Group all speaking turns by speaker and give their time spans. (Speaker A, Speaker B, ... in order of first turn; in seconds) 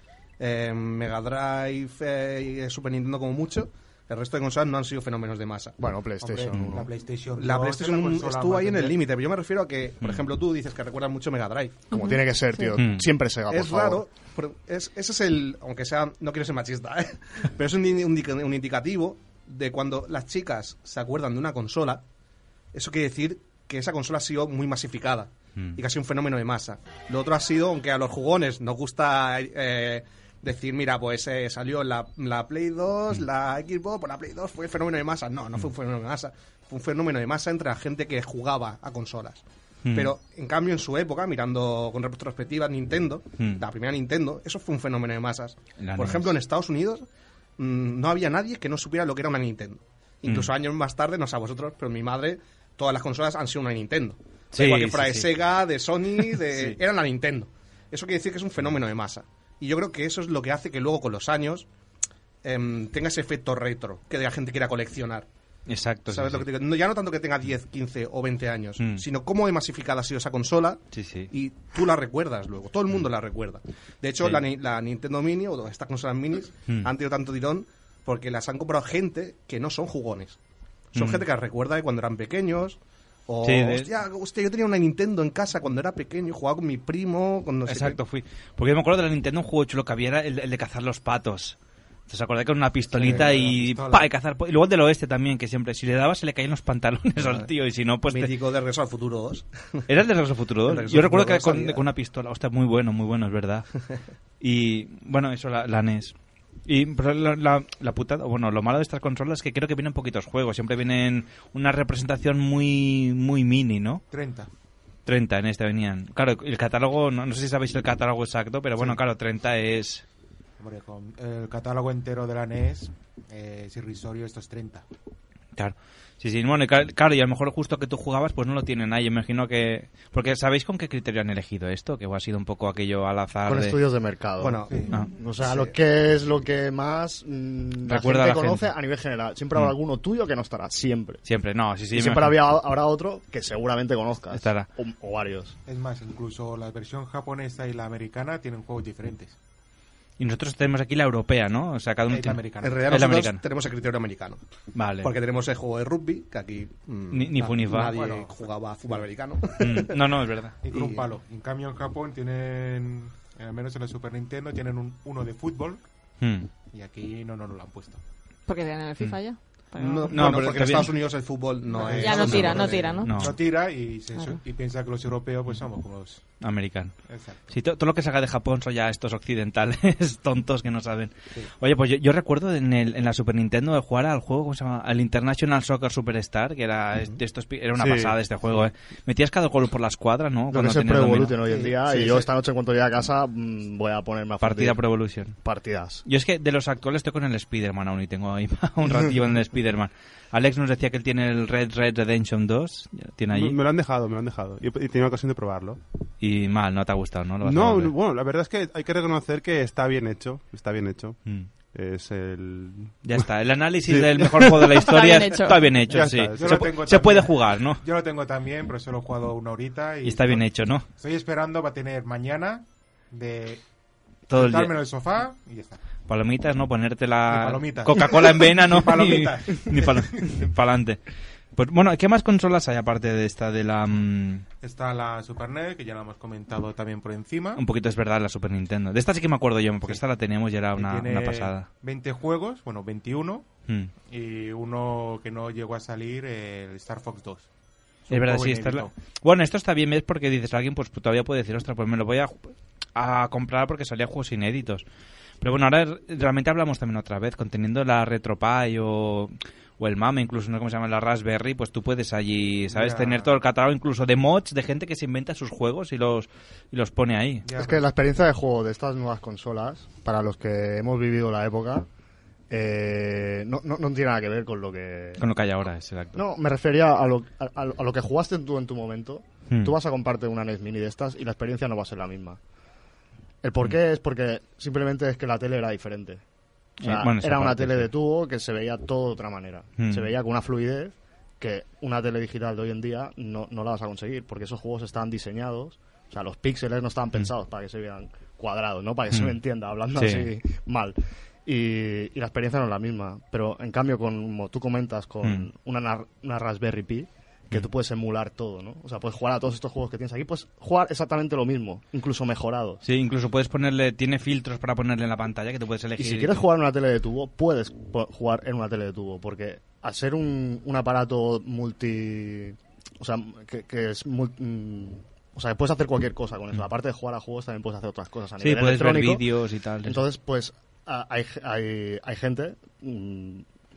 Speaker A: 0.4-5.7, 7.3-11.9, 13.5-22.0, 22.7-47.0, 47.6-61.7, 62.4-65.3, 66.1-80.4, 80.9-88.0, 98.1-99.8, 100.7-101.8, 134.4-134.8, 135.4-135.7, 152.6-154.4, 155.0-159.9, 169.8-173.0
Speaker B: 5.8-6.9, 11.9-14.1, 133.4-141.2, 141.9-145.6, 190.5-194.9, 195.4-196.0, 267.5-271.9, 272.5-275.2, 276.1-282.4, 283.4-286.2, 286.8-312.8, 316.0-329.3, 329.8-333.4
Speaker C: 6.2-9.0, 92.9-94.1, 114.1-114.5, 120.6-124.8, 134.7-135.0, 145.7-149.4, 152.1-152.8, 157.9-159.1, 160.6-165.8, 166.7-168.0, 171.7-176.4, 177.1-177.4, 191.4-192.3, 216.3-223.6, 224.3-225.8, 227.3-230.5, 234.6-237.6, 240.7-243.5, 244.1-247.5, 248.1-248.9, 262.7-263.3, 267.4-267.8
Speaker D: 6.5-6.8, 12.8-13.0, 39.8-40.1, 43.4-43.6, 45.8-46.4, 50.2-50.5, 54.5-55.3, 56.2-56.8, 65.7-66.5, 68.8-69.0, 70.9-71.3, 80.9-81.2, 83.4-83.9, 87.7-91.6, 92.1-98.4, 99.9-103.7, 104.4-106.1, 106.7-114.0, 115.0-120.0, 125.5-133.8, 137.8-138.7, 141.2-142.4, 144.3-144.7, 150.2-153.4, 154.7-155.1, 157.1-158.1, 159.6-160.6, 166.2-166.5, 170.1-171.1, 172.0-173.4, 176.4-176.9, 177.5-191.4, 194.4-195.3, 196.1-203.6, 206.2-207.9, 211.2-211.5, 213.0-217.8, 220.0-220.8, 224.3-224.8, 226.1-231.0, 231.6-234.4, 237.6-241.7, 248.1-254.8, 255.4-267.5, 275.2-276.2, 286.8-287.9, 289.8-290.1, 299.1-299.4, 299.9-300.3, 312.8-316.4, 328.4-330.0
Speaker E: 11.9-12.8, 168.5-170.1, 171.9-173.3, 174.1-174.4, 214.8-215.7
Speaker F: 187.8-188.2, 203.3-205.8, 207.4-213.2, 213.8-214.8, 215.9-216.8